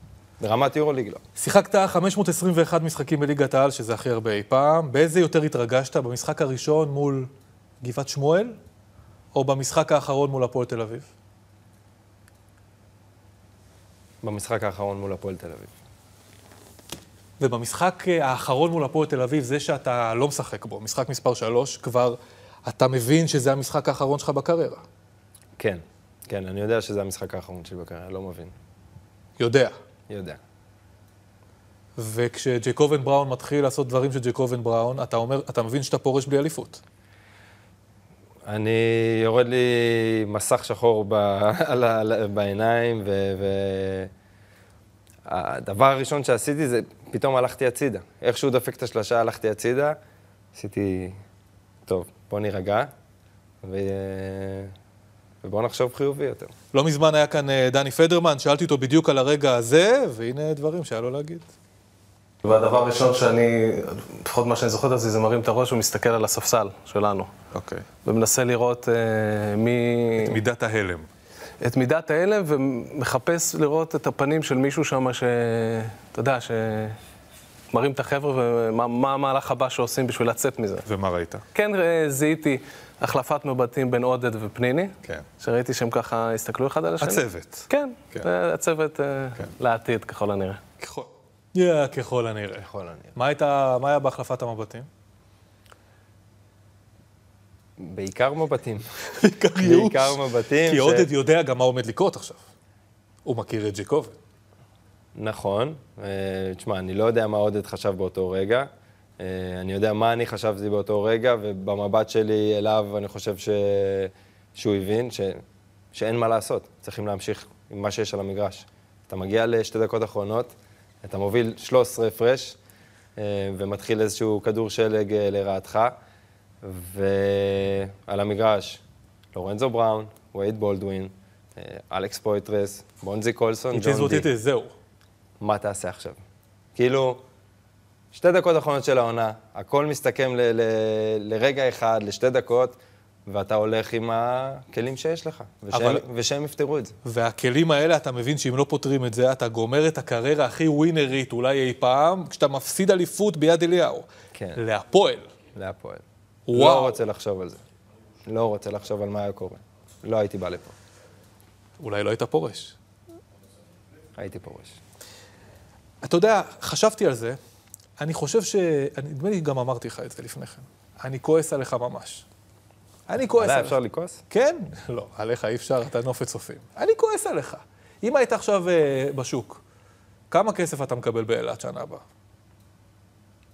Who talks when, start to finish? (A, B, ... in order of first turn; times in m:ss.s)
0:00.4-0:01.2 A
0:01.4-0:07.3 B
0:07.8-0:08.6 B
0:09.3-0:11.1 B
0:14.2-0:15.7 A
0:17.4-0:24.8 B
0:25.6-0:28.5 A
0:29.4-0:29.7 B
0:30.1-0:30.4 A
0:32.0-0:36.8 B
0:38.4-0:44.1 A
0:45.3-0:50.0 A
0:50.5-0:51.2 A
0:51.8-0:52.9 A
0:53.6-0:54.7 A
0:55.4-0:56.5 A
0:56.7-1:01.4 B
1:02.4-1:07.3 C
1:07.5-1:07.8 B
1:08.0-1:10.4 C
1:10.2-1:11.1 B
1:11.6-1:17.0 C
1:17.7-1:20.8 C
1:20.8-1:21.4 B
1:21.5-1:30.6 C
1:27.0-1:28.3 B
1:30.8-1:34.9 B
1:32.6-1:33.1 A
1:37.8-1:38.8 A
1:39.2-1:42.4 B
1:39.5-1:41.1 A
1:43.2-1:44.2 B
1:45.1-1:55.4 A
1:55.9-2:02.6 A
2:03.2-2:06.0 A
2:06.6-2:08.8 A
2:09.3-2:14.3 A
2:13.7-2:14.7 B
2:15.4-2:16.2 A
2:16.7-2:17.2 A
2:18.1-2:26.9 A
2:25.7-2:26.0 B
2:27.0-2:35.3 B
2:34.3-2:34.6 A
2:35.5-2:37.6 A
2:36.5-2:37.0 B
2:38.2-2:40.7 A
2:41.8-2:42.8 B
2:44.2-2:44.8 A
2:46.0-2:47.4 B
2:48.0-2:52.2 B
2:53.1-2:53.8 B
2:53.4-2:54.2 A
2:54.3-2:59.6 B
3:00.3-3:02.0 B